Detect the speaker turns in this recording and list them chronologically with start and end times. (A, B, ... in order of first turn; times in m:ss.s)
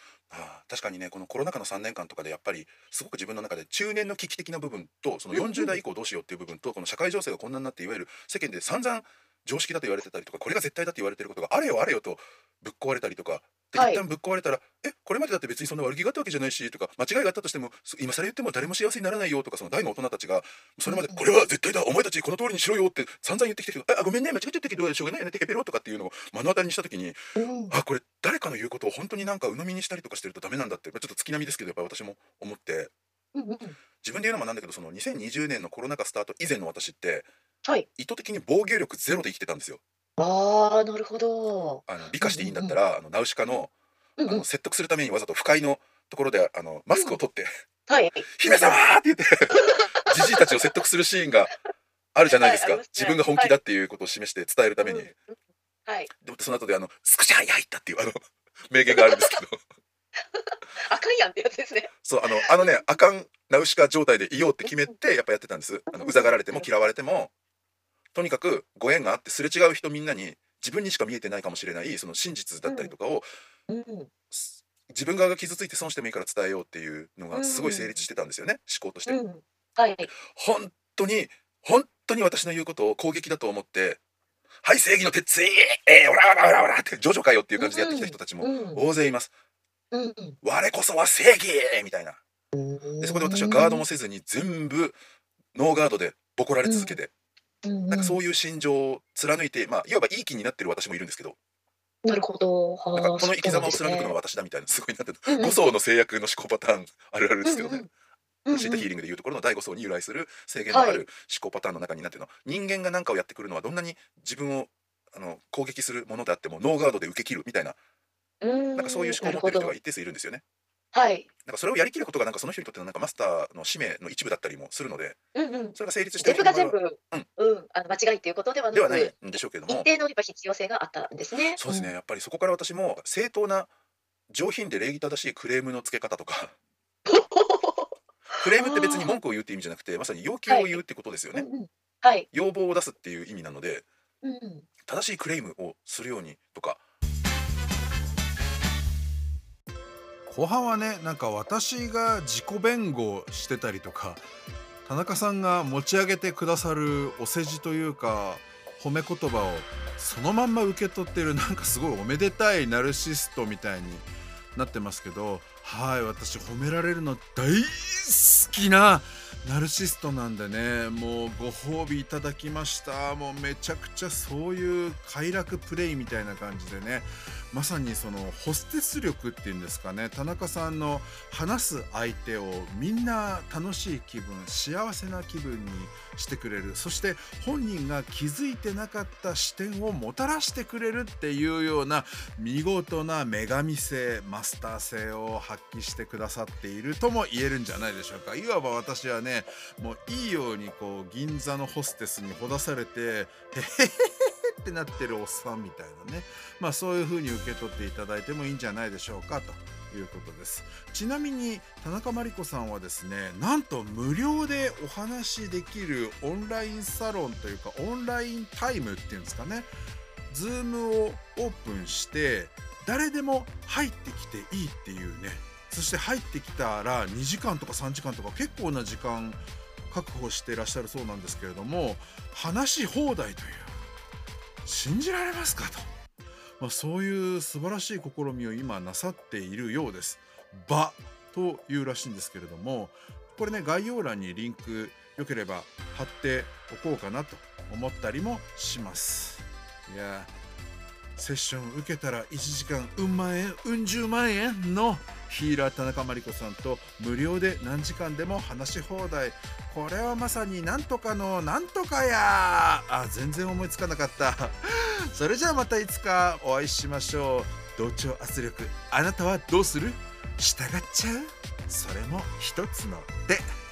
0:00.3-0:27.2 A
0:05.3-0:05.8 B
0:13.8-0:14.0 B
0:20.9-0:21.2 B
0:27.4-0:27.7 B
0:27.7-0:32.9 A
0:33.4-0:33.8 B
0:34.0-0:37.3 A
0:38.0-0:39.8 A
0:40.2-0:42.8 B
0:41.9-0:43.7 A
0:44.2-0:44.4 B
0:44.3-0:47.5 A
0:47.9-0:48.8 B
0:48.4-0:51.5 A
0:49.5-0:50.1 B
0:52.2-0:55.1 A
0:52.3-0:53.6 B
0:54.8-0:55.1 B
0:56.2-0:59.6 A
0:58.9-0:59.3 B
1:00.3-1:02.8 B
1:02.0-1:07.3 A
1:04.6-1:04.9 B
1:05.9-1:06.9 B
1:08.1-1:13.3 A
1:12.7-1:12.9 B
1:13.7-1:14.1 B
1:14.3-1:19.2 A
1:17.3-1:18.0 B
1:19.1-1:20.1 B
1:20.1-1:24.0 A
1:24.6-1:29.3 A
1:27.6-1:28.8 B
1:29.9-1:30.4 B
1:30.4-1:32.2 A
1:32.5-1:33.8 B
1:33.0-1:35.0 A
1:35.6-1:37.1 A
1:36.6-1:37.0 B
1:37.6-1:38.2 B
1:37.9-1:41.4 A
1:42.0-1:44.2 B
1:43.0-1:47.8 A
1:45.3-1:45.6 B
1:47.5-1:47.9 B
1:48.5-1:48.9 B
1:48.5-1:57.8 A
1:50.7-1:51.0 B
1:58.4-1:59.7 B
1:58.8-2:00.4 A
2:00.9-2:01.3 B
2:01.4-2:05.2 A
2:05.4-2:09.2 B
2:05.8-2:07.3 A
2:08.7-2:09.9 A
2:09.7-2:11.9 B
2:11.6-2:13.7 A
2:14.3-2:16.5 A
2:17.1-2:17.9 B
2:18.4-2:21.5 A
2:18.6-2:19.2 B
2:20.5-2:20.8 B
2:21.3-2:22.3 B
2:22.3-2:23.9 A
2:24.2-2:24.7 B
2:24.8-2:26.8 A
2:30.3-2:34.2 C
2:34.9-3:39.7 C
3:40.3-3:53.8 C
3:54.6-3:55.9 C
3:56.6-4:10.3 C
4:11.2-4:33.5 C